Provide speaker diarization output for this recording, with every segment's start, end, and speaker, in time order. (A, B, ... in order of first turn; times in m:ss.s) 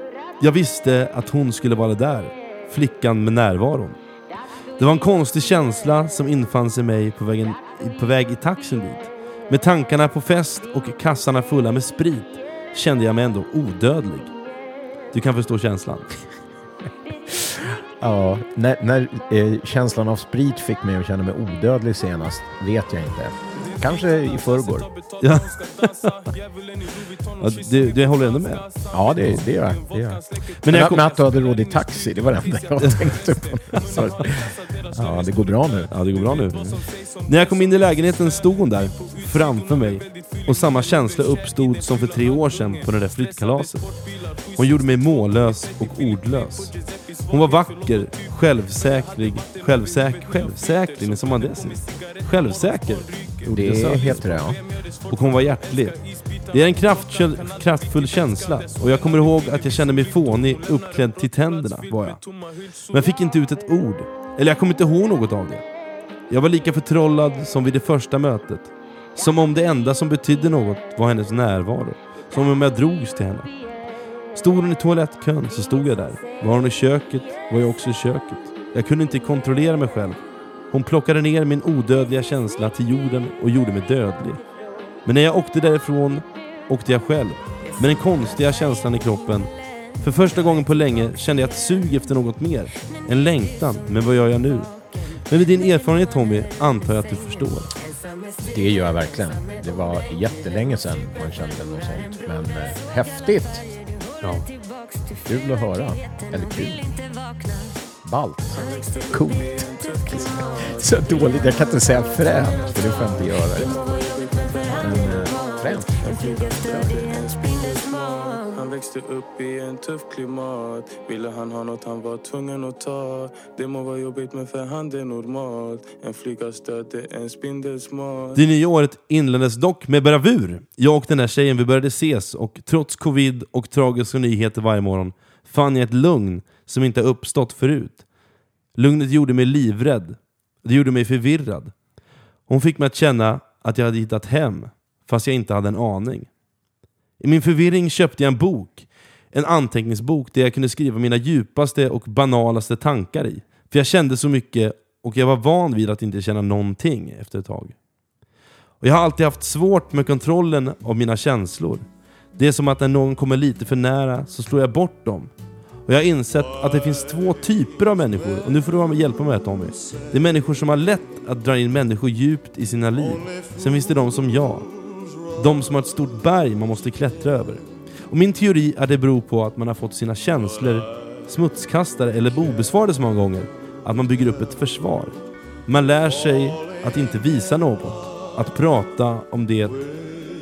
0:00.4-0:04.0 A
0:04.8-0:14.3 A
0:15.1-0:16.1 A
0:17.3-0:24.9 B
0:23.5-0:32.7 C
0:25.2-0:26.2 A
0:27.4-0:28.6 A
0:28.9-0:35.9 B
0:30.6-0:31.1 A
0:32.8-0:33.1 A
0:33.5-0:35.6 C
0:35.9-0:36.7 A
0:36.5-0:36.8 B
0:36.7-0:37.3 C
0:37.2-0:43.9 A
0:44.5-0:46.8 A
0:46.7-0:47.2 C
0:47.3-0:54.3 A
0:49.9-0:53.2 C
0:53.5-0:54.6 B
0:54.4-0:55.1 C
0:55.1-1:02.2 A
0:57.8-1:02.8 C
1:02.9-1:05.6 A
1:06.3-1:13.5 A
1:14.3-1:20.2 A
1:20.7-1:24.4 A
1:25.0-1:37.7 A
1:38.5-1:43.6 B
1:44.2-1:44.5 A
1:45.2-1:47.0 B
1:48.0-1:53.7 B
1:48.5-2:08.4 C
1:54.7-1:57.0 B
2:08.3-2:18.0 A
2:18.7-2:21.7 A
2:22.5-2:26.3 A
2:27.2-2:37.7 A
2:38.8-2:45.3 A
2:45.8-2:54.7 A
2:55.3-3:09.8 A